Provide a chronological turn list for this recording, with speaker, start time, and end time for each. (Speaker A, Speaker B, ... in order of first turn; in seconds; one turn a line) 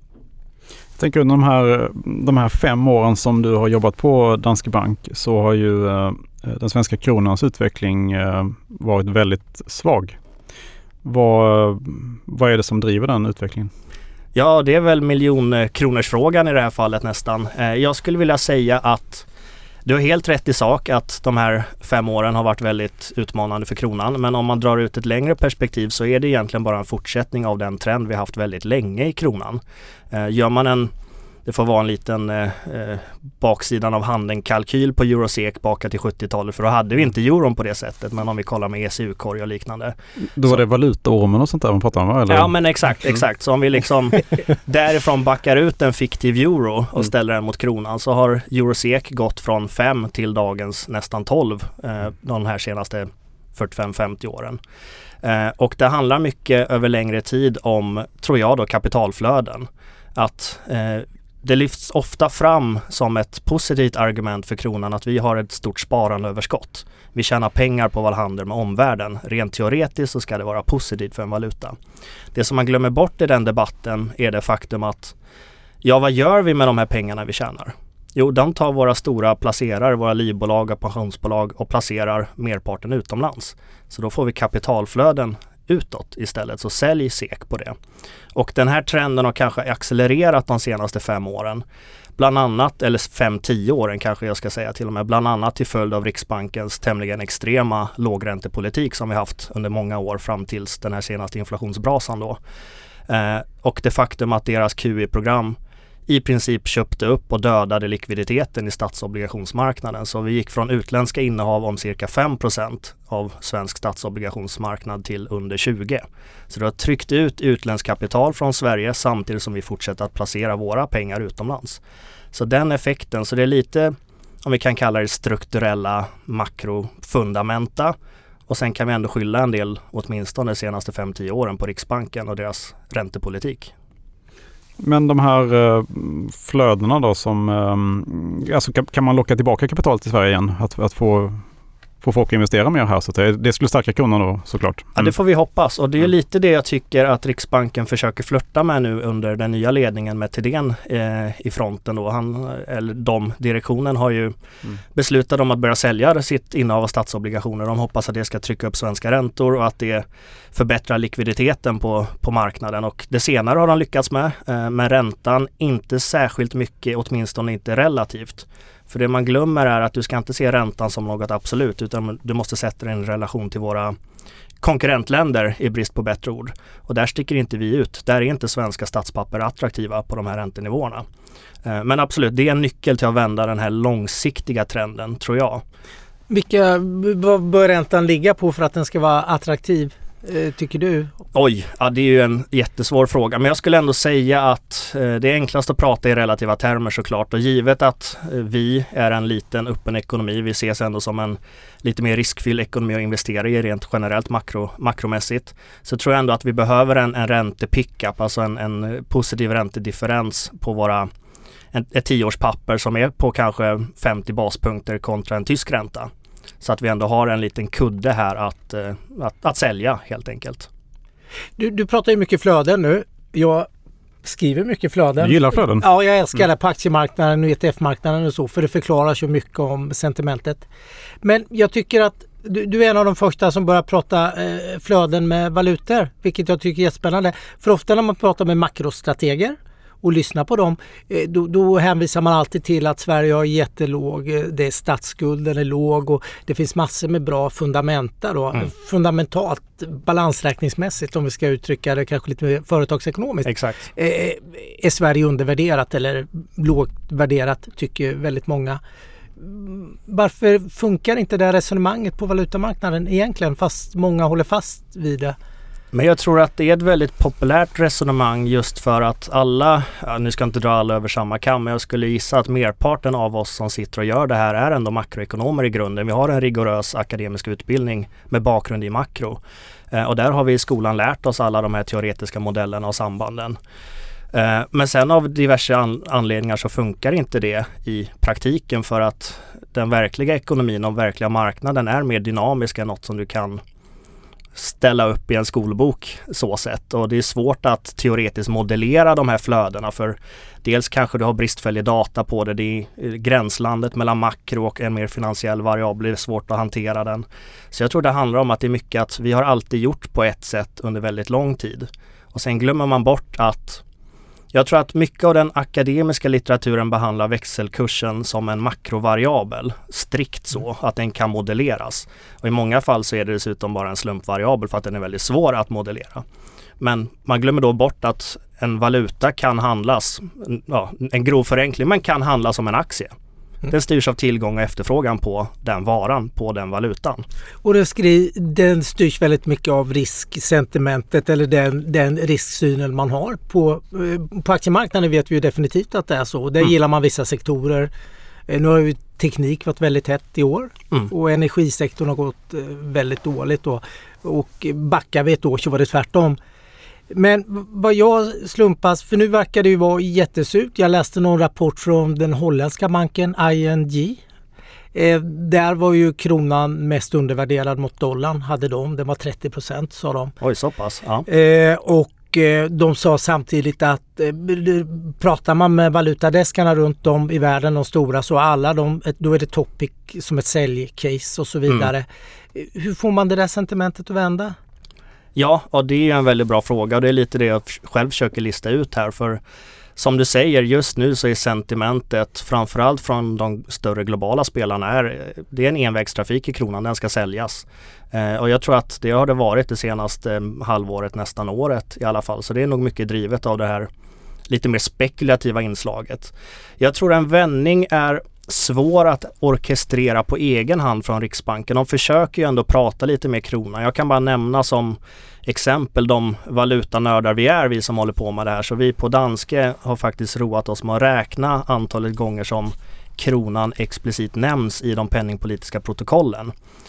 Speaker A: 1.0-10.2
Speaker A: 11.0-13.7
Speaker B: 14.3-19.2
Speaker B: 19.9-29.6
Speaker B: 30.1-30.9
Speaker B: 31.4-39.9
Speaker A: 40.2-42.5
Speaker B: 42.3-54.6
Speaker B: 55.2-71.8
Speaker B: 72.3-75.1
Speaker B: 75.8-87.7
Speaker B: 88.3-91.6
Speaker B: 92.2-102.4
Speaker B: 103.1-121.8
Speaker B: 122.3-127.9
Speaker B: 128.5-133.7
Speaker A: 134.8-141.4
Speaker A: 142.0-145.1
Speaker B: 144.9-154.3
Speaker B: 154.9-173.9
Speaker B: 174.6-181.0
Speaker B: 181.6-185.6
Speaker C: 186.3-191.1
Speaker B: 191.3-211.1
Speaker B: 211.7-220.7
Speaker C: 221.6-223.7
Speaker C: 224.2-230.6
Speaker A: 225.2-225.8
Speaker C: 231.2-258.8
Speaker B: 253.4-253.9
Speaker C: 259.4-265.4
Speaker B: 265.9-283.6
Speaker B: 284.3-293.6
Speaker B: 294.6-313.8
Speaker B: 314.5-326.2
Speaker B: 326.8-333.1
Speaker B: 333.6-337.2
Speaker C: 337.6-347.9
Speaker C: 348.5-356.4
Speaker C: 357.1-364.2
Speaker C: 364.9-370.3
Speaker B: 370.4-371.3
Speaker C: 371.3-384.5
Speaker B: 385.4-389.4
Speaker B: 389.9-403.9
Speaker B: 404.5-426.5